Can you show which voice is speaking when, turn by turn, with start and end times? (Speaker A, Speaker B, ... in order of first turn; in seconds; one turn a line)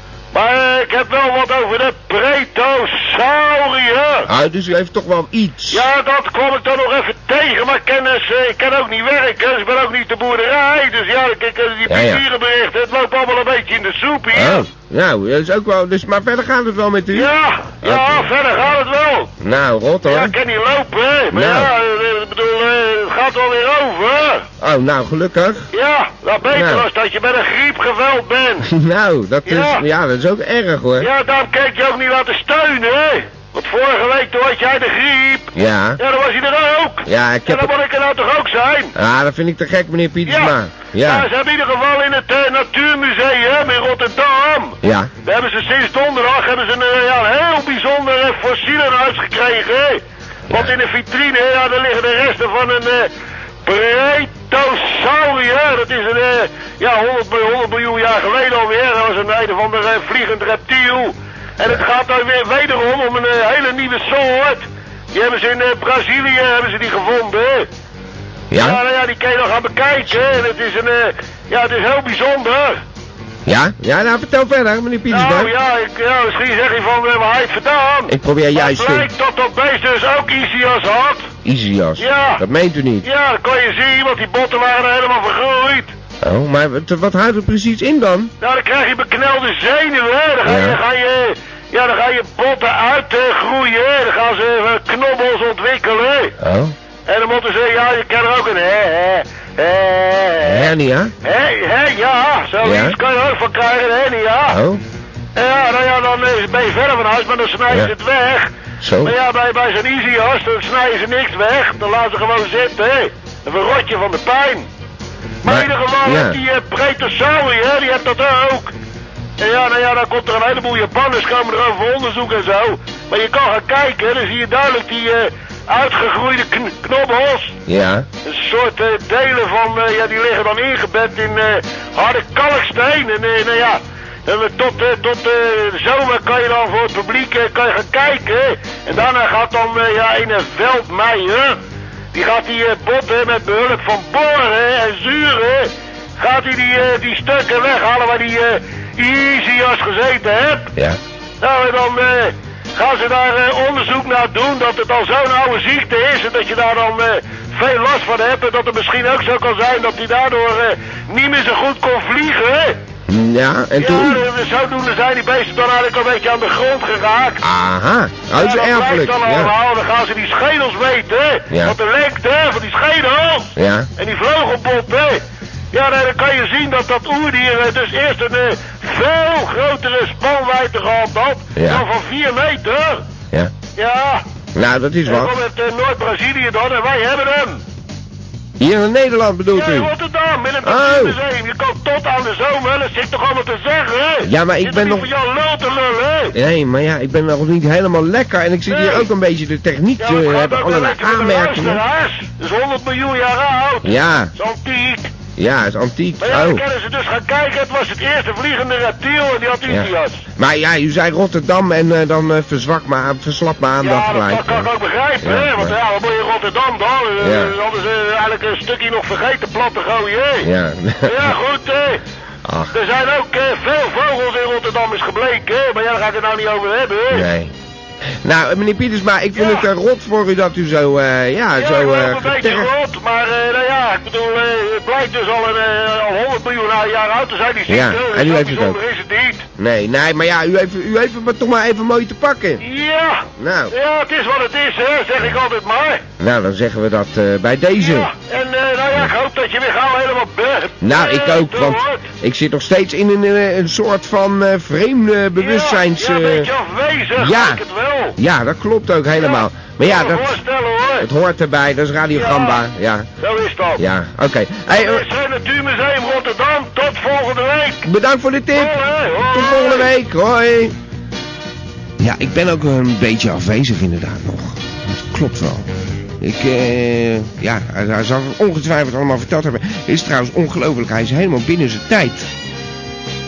Speaker A: 0.3-4.3
Speaker B: 4.2-5.8
Speaker A: 5.7-14.7
Speaker B: 11.9-12.2
Speaker B: 14.3-18.4
Speaker A: 17.1-19.3
Speaker B: 19.4-20.3
Speaker A: 20.1-24.4
Speaker B: 21.3-21.7
Speaker B: 24.6-25.7
Speaker A: 25.7-28.7
Speaker B: 26.4-26.9
Speaker B: 28.6-31.1
Speaker A: 29.4-29.8
Speaker A: 31.0-38.9
Speaker B: 35.5-36.0
Speaker B: 37.0-37.7
Speaker B: 38.9-41.3
Speaker A: 40.2-53.1
Speaker B: 44.8-45.1
Speaker B: 50.5-50.7
Speaker A: 53.6-67.7
Speaker B: 68.5-68.8
Speaker A: 68.5-72.8
Speaker B: 73.5-75.5
Speaker A: 75.1-81.3
Speaker B: 78.1-79.1
Speaker B: 81.4-83.1
Speaker A: 82.0-82.4
Speaker A: 83.0-85.9
Speaker B: 86.2-88.3
Speaker A: 88.4-96.3
Speaker B: 90.4-90.8
Speaker B: 96.4-96.7
Speaker A: 97.1-100.7
Speaker B: 100.4-101.1
Speaker A: 101.2-104.6
Speaker B: 102.6-103.0
Speaker B: 104.5-104.8
Speaker A: 105.3-114.7
Speaker B: 108.8-109.2
Speaker A: 115.4-118.7
Speaker B: 115.4-116.4
Speaker A: 119.4-127.5
Speaker B: 127.7-128.1
Speaker A: 128.2-141.6
Speaker A: 142.1-150.7
Speaker A: 151.4-162.8
Speaker B: 163.1-164.2
Speaker A: 163.8-167.4
Speaker B: 167.4-169.5
Speaker A: 168.3-175.2
Speaker B: 171.5-171.8
Speaker B: 173.6-173.9
Speaker A: 175.7-183.0
Speaker B: 181.6-181.8
Speaker A: 183.8-184.2
Speaker B: 184.5-185.3
Speaker A: 185.1-187.6
Speaker B: 188.6-189.9
Speaker A: 189.5-196.3
Speaker B: 190.6-191.2
Speaker B: 194.2-195.1
Speaker B: 196.3-201.8
Speaker A: 198.7-199.1
Speaker A: 200.0-205.1
Speaker B: 203.8-204.3
Speaker B: 205.3-206.6
Speaker A: 206.2-210.2
Speaker B: 209.7-214.7
Speaker A: 213.8-220.5
Speaker B: 215.2-215.8
Speaker B: 217.2-217.5
Speaker B: 220.4-221.4
Speaker A: 221.0-222.0
Speaker B: 222.4-222.7
Speaker A: 222.7-227.3
Speaker B: 227.1-227.5
Speaker B: 228.2-232.7
Speaker A: 229.3-229.7
Speaker A: 231.6-239.4
Speaker B: 237.7-238.8
Speaker B: 239.6-242.6
Speaker A: 242.6-246.0
Speaker B: 243.4-243.7
Speaker B: 246.2-248.1
Speaker A: 247.8-252.0
Speaker B: 250.8-256.5
Speaker A: 255.4-258.2
Speaker B: 257.1-257.6
Speaker B: 258.1-260.4
Speaker A: 259.2-261.1
Speaker B: 261.0-263.1
Speaker A: 262.1-262.6
Speaker A: 263.2-263.8
Speaker B: 263.8-265.1
Speaker A: 264.7-267.8
Speaker B: 267.8-270.7
Speaker A: 268.5-269.9
Speaker B: 272.0-275.7
Speaker B: 276.2-282.3